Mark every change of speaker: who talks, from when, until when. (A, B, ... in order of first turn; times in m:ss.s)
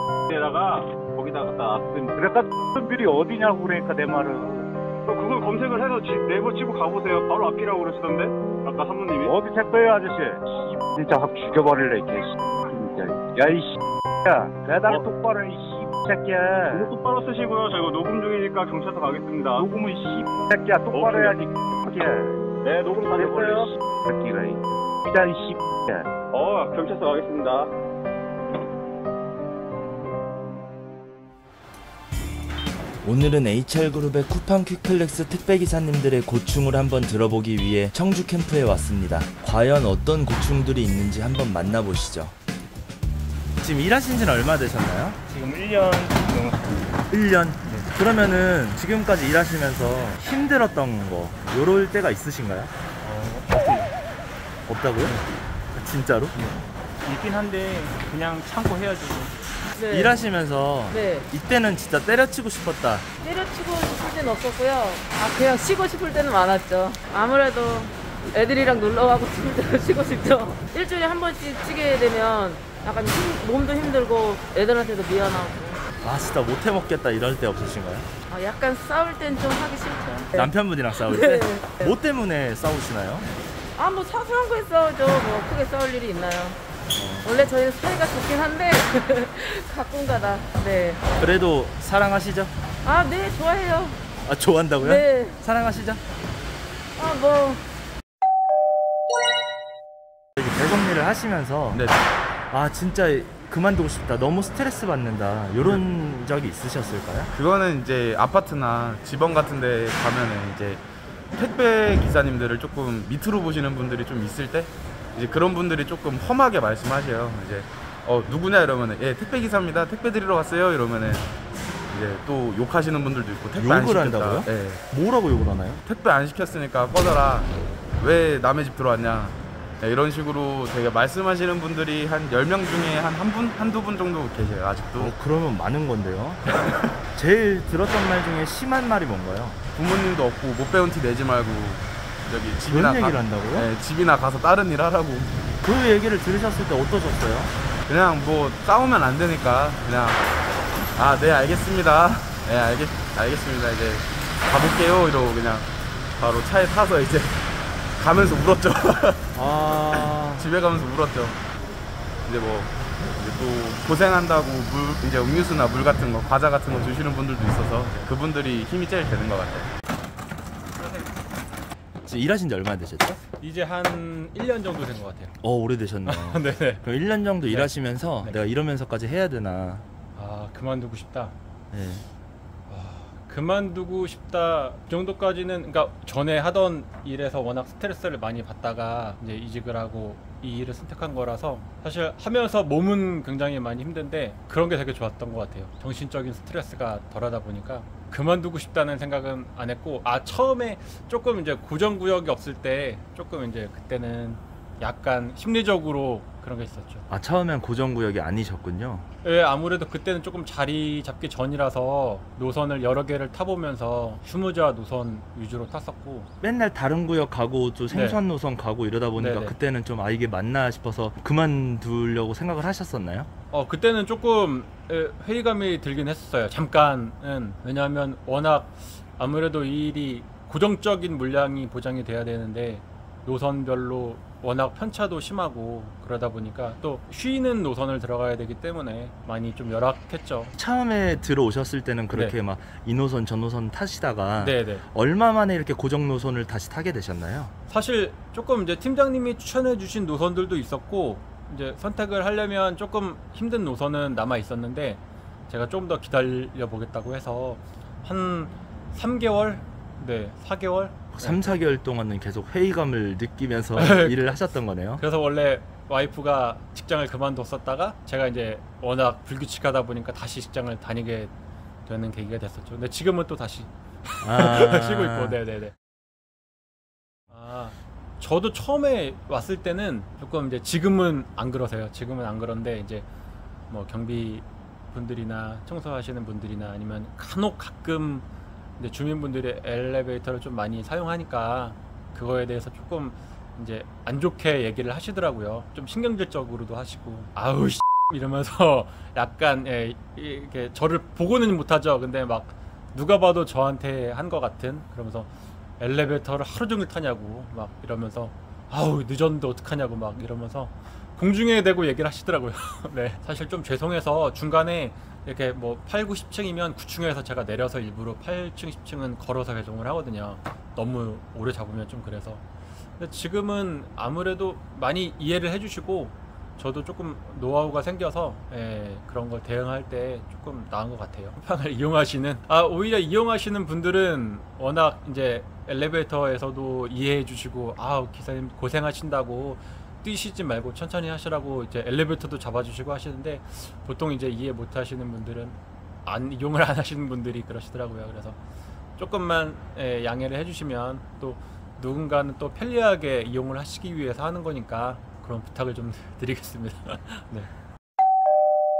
0:00.3-0:02.2 A
0:02.0-0:04.7 B
0:05.1-0:09.4 A
0:09.2-0:16.9 B
0:16.7-0:20.0 A
0:19.6-0:22.4 B
0:20.9-0:21.4 A
0:22.6-0:23.7 A
0:23.1-0:26.1 B
0:26.3-0:27.7 A
0:33.0-0:42.4 C
0:43.6-0:45.2 C
0:45.3-0:46.6 D
0:47.1-0:52.7 C
0:53.0-0:53.9 D
0:54.7-0:55.2 C
0:55.7-0:56.4 C
0:56.4-0:59.3 D
0:59.9-1:03.1 C
1:00.9-1:01.2 E
1:03.2-1:15.8 E
1:16.0-1:18.1 C
1:18.3-1:20.4 E
1:20.3-1:23.3 C
1:21.2-1:21.9 E
1:23.8-1:26.6 E
1:26.9-1:27.4 C
1:27.2-1:31.0 E
1:31.2-1:32.5 C
1:32.9-1:34.0 E
1:34.2-1:36.0 C
1:34.8-1:35.4 E
1:37.0-1:37.6 E
1:40.4-1:41.8 C
1:41.7-1:42.0 F
1:42.5-1:47.3 C
1:47.3-1:50.8 F
1:51.3-2:01.3 F
2:01.9-2:04.8 F
2:03.6-2:05.8 C
2:05.8-2:15.1 F
2:15.0-2:16.5 C
2:17.1-2:19.6 C
2:19.8-2:25.3 F
2:22.7-2:23.7 C
2:25.6-2:27.5 C
2:27.9-2:30.2 F
2:31.0-2:37.4 F
2:38.0-2:39.3 F
2:39.4-2:40.5 D
2:39.9-2:41.4 F
2:42.2-2:49.7 F
2:50.8-2:51.1 D
2:52.0-2:53.2 C
2:53.4-2:55.4 D
2:55.4-2:59.9 C
2:56.0-2:56.8 D
2:57.4-2:58.4 D
3:00.2-3:01.4 D
3:01.7-3:02.1 C
3:02.7-3:27.1 D
3:27.1-3:29.1 C
3:29.2-3:36.3 D
3:36.4-3:43.3 C
3:37.9-3:38.2 D
3:39.2-3:39.6 D
3:43.5-4:00.5 D
4:00.6-4:07.5 C
4:04.4-4:04.8 D
4:07.7-4:21.6 D
4:21.1-4:25.0 C
4:23.8-4:24.4 D
4:25.0-4:31.3 D
4:31.9-4:35.7 D
4:34.2-4:35.4 C
4:37.3-4:43.1 D
4:43.7-4:48.3 D
4:48.8-5:22.4 D
5:23.0-5:48.4 D
5:49.0-5:57.5 D